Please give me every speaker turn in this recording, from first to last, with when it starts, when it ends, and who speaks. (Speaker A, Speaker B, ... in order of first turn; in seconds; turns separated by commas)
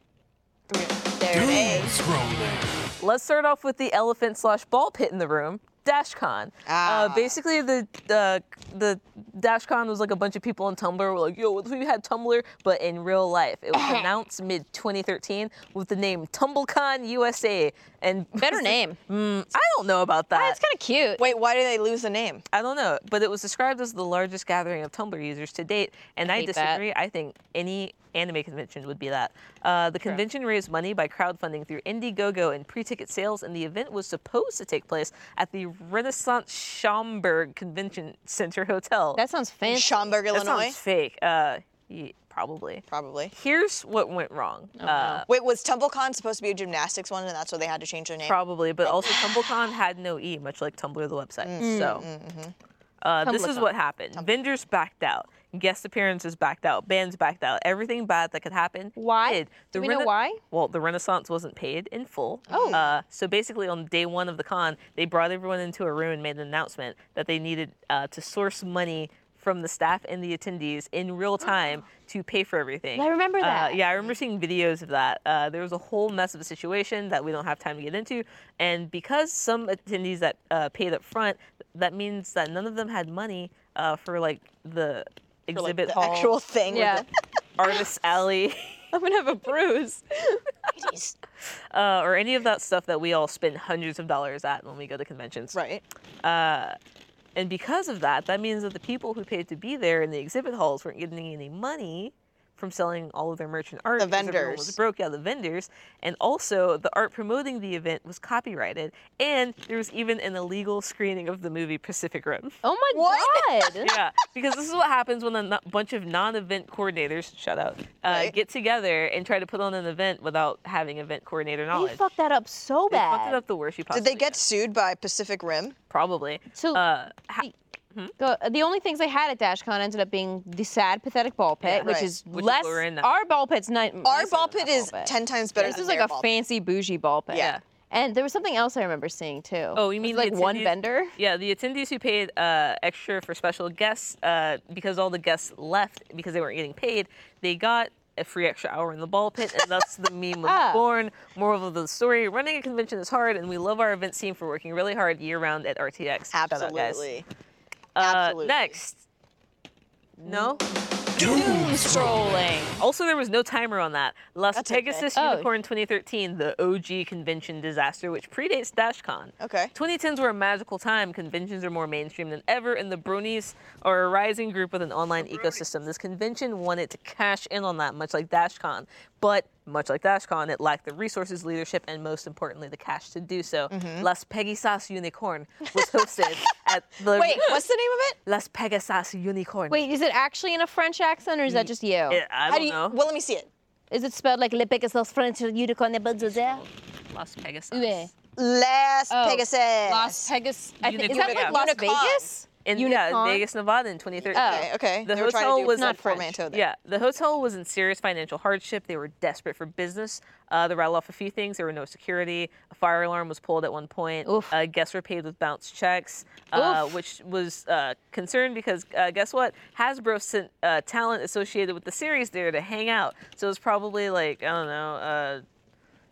Speaker A: 0.7-1.9, Speaker B: 1.2-1.9, Speaker C: 1.3-2.9, Speaker D: 3.0-20.6, Speaker A: 6.7-7.4, Speaker B: 13.7-14.1, Speaker B: 18.4-19.0, Speaker B: 20.3-21.2, Speaker A: 21.2-22.4, Speaker D: 22.5-39.2, Speaker B: 26.3-26.8, Speaker B: 39.2-40.2, Speaker A: 39.7-40.8, Speaker D: 40.3-45.3, Speaker A: 42.9-43.3, Speaker B: 44.8-45.2, Speaker A: 45.3-49.3, Speaker D: 48.2-52.0, Speaker A: 51.4-52.5, Speaker B: 51.6-52.1, Speaker D: 53.0-87.0, Speaker B: 53.2-53.7, Speaker B: 59.0-60.4, Speaker B: 62.5-62.8, Speaker A: 62.5-62.9, Speaker B: 73.0-74.1, Speaker A: 85.5-87.0, Speaker B: 86.7-87.0, Speaker D: 87.6-88.8, Speaker B: 88.9-91.1, Speaker A: 90.8-91.1, Speaker D: 91.7-95.6, Speaker A: 95.5-95.8, Speaker D: 96.2-96.8, Speaker D: 97.4-112.6, Speaker A: 104.0-104.8, Speaker B: 112.6-113.9, Speaker A: 112.9-113.8, Speaker D: 113.8-122.0, Speaker A: 118.1-118.3, Speaker B: 121.7-123.4, Speaker D: 122.9-124.4, Speaker A: 123.9-125.8, Speaker D: 125.9-128.1, Speaker B: 126.5-126.8, Speaker B: 128.2-141.2, Speaker D: 131.6-133.1, Speaker A: 131.8-132.1, Speaker A: 134.0-136.4, Speaker D: 137.4-137.6, Speaker D: 139.8-157.1, Speaker B: 150.4-150.8, Speaker A: 156.3-157.3, Speaker D: 158.0-159.1, Speaker A: 158.0-158.8, Speaker D: 160.2-160.6, Speaker B: 160.3-160.6, Speaker B: 161.2-162.8, Speaker C: 161.2-162.4, Speaker D: 161.2-162.1, Speaker D: 162.8-187.6, Speaker A: 164.5-165.1, Speaker B: 165.2-165.5, Speaker A: 169.4-169.7, Speaker A: 183.7-184.1, Speaker A: 185.8-186.4, Speaker A: 187.1-188.2, Speaker D: 188.3-189.8, Speaker B: 189.7-192.2, Speaker D: 191.5-193.0, Speaker A: 192.5-193.5, Speaker B: 193.9-196.6, Speaker D: 196.2-198.1, Speaker B: 197.7-198.1, Speaker A: 198.4-200.3, Speaker B: 199.1-203.4, Speaker D: 200.8-201.6, Speaker A: 201.1-202.3, Speaker D: 202.7-206.0, Speaker A: 204.2-206.7, Speaker B: 204.3-204.7, Speaker B: 205.7-206.4, Speaker D: 206.5-225.4, Speaker B: 214.2-214.5, Speaker B: 216.5-216.9